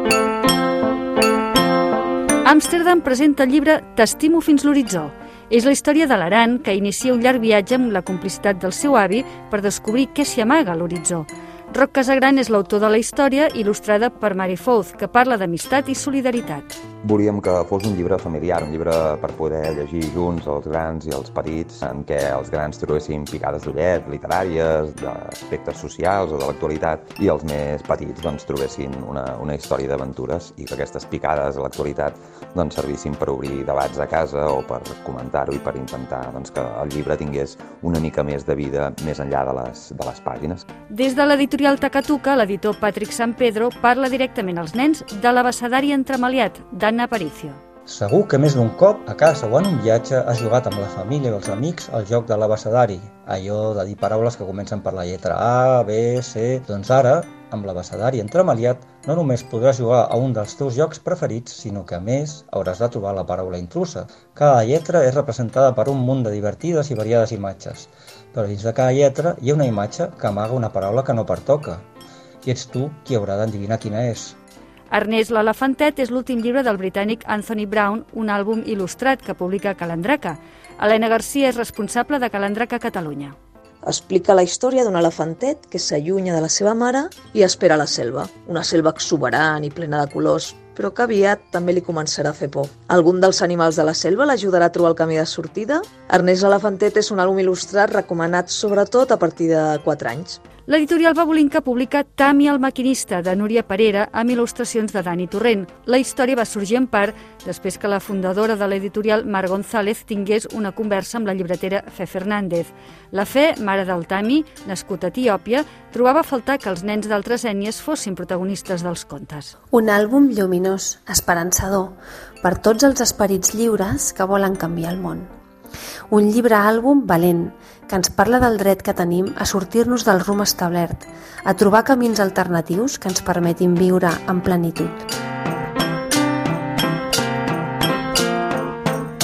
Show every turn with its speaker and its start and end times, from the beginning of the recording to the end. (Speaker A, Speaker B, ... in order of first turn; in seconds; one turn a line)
Speaker A: 2.4-16.7
Speaker B: 17.0-40.6
Speaker A: 40.9-47.6
Speaker C: 47.9-71.8
Speaker C: 72.4-74.3
Speaker A: 74.9-83.3
Speaker D: 83.8-100.4
Speaker A: 100.7-119.5
Speaker E: 119.7-125.3
Speaker E: 126.1-135.0